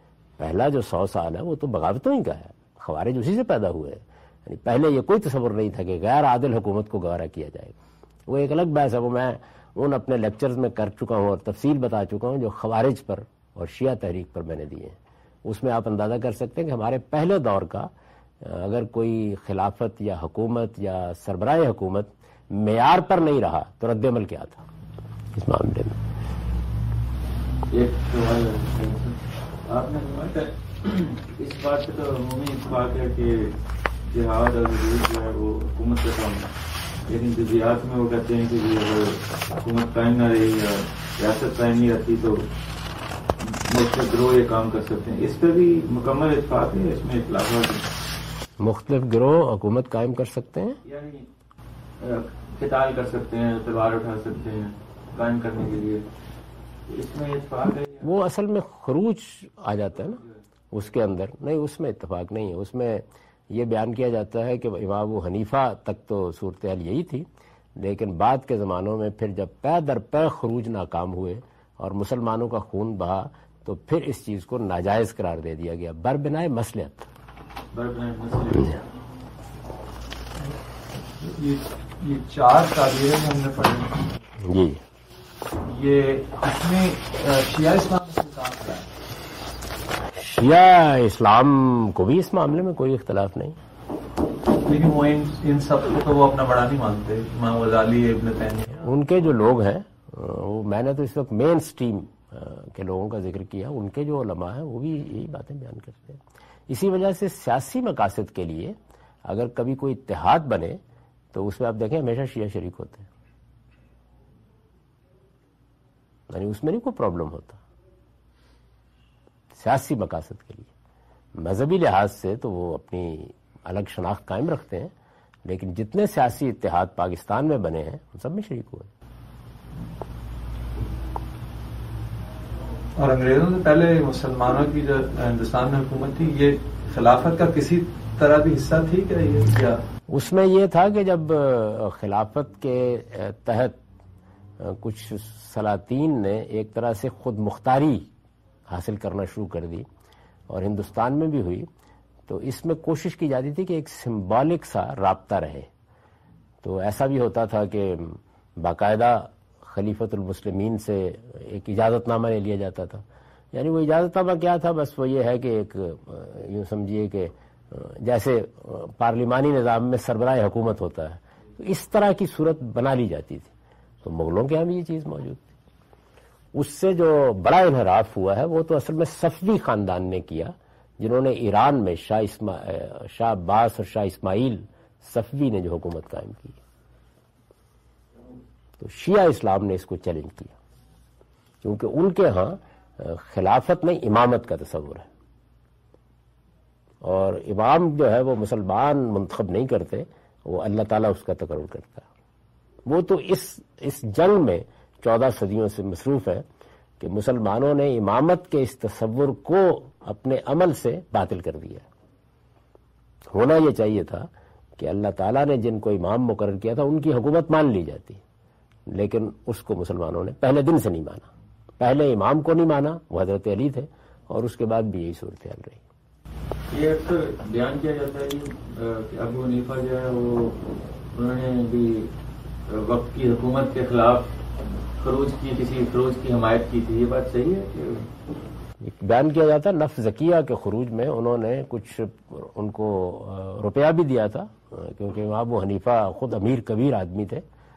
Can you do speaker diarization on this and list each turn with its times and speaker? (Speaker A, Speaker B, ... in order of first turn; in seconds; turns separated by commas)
Speaker A: 0.4-17.9, Speaker A: 18.4-24.6, Speaker A: 25.3-26.0, Speaker B: 27.7-36.5, Speaker B: 37.1-42.5, Speaker B: 43.4-47.9, Speaker A: 48.6-50.8, Speaker B: 50.8-51.3, Speaker B: 52.0-56.0, Speaker B: 56.9-58.1, Speaker A: 58.0-60.2, Speaker A: 60.7-77.1, Speaker B: 77.7-78.8, Speaker C: 81.2-84.2, Speaker A: 84.4-84.8, Speaker C: 85.6-88.9, Speaker A: 90.1-93.6, Speaker C: 94.6-98.9, Speaker A: 98.8-110.8, Speaker A: 111.3-113.1, Speaker A: 116.3-117.6, Speaker A: 119.5-120.7, Speaker A: 121.4-124.9, Speaker A: 125.5-128.9, Speaker C: 133.0-139.8, Speaker A: 140.1-143.8, Speaker A: 144.6-148.1, Speaker A: 148.7-149.9, Speaker A: 150.5-151.7, Speaker A: 152.3-155.7, Speaker A: 156.6-173.5, Speaker A: 174.0-175.6, Speaker A: 176.5-186.6, Speaker A: 188.8-190.6, Speaker A: 191.6-195.1, Speaker A: 197.0-202.1, Speaker A: 202.9-206.4, Speaker A: 207.0-211.8, Speaker A: 213.3-218.2, Speaker A: 218.9-225.8, Speaker B: 226.7-232.1, Speaker B: 232.7-234.3, Speaker B: 235.0-238.1, Speaker A: 238.8-247.4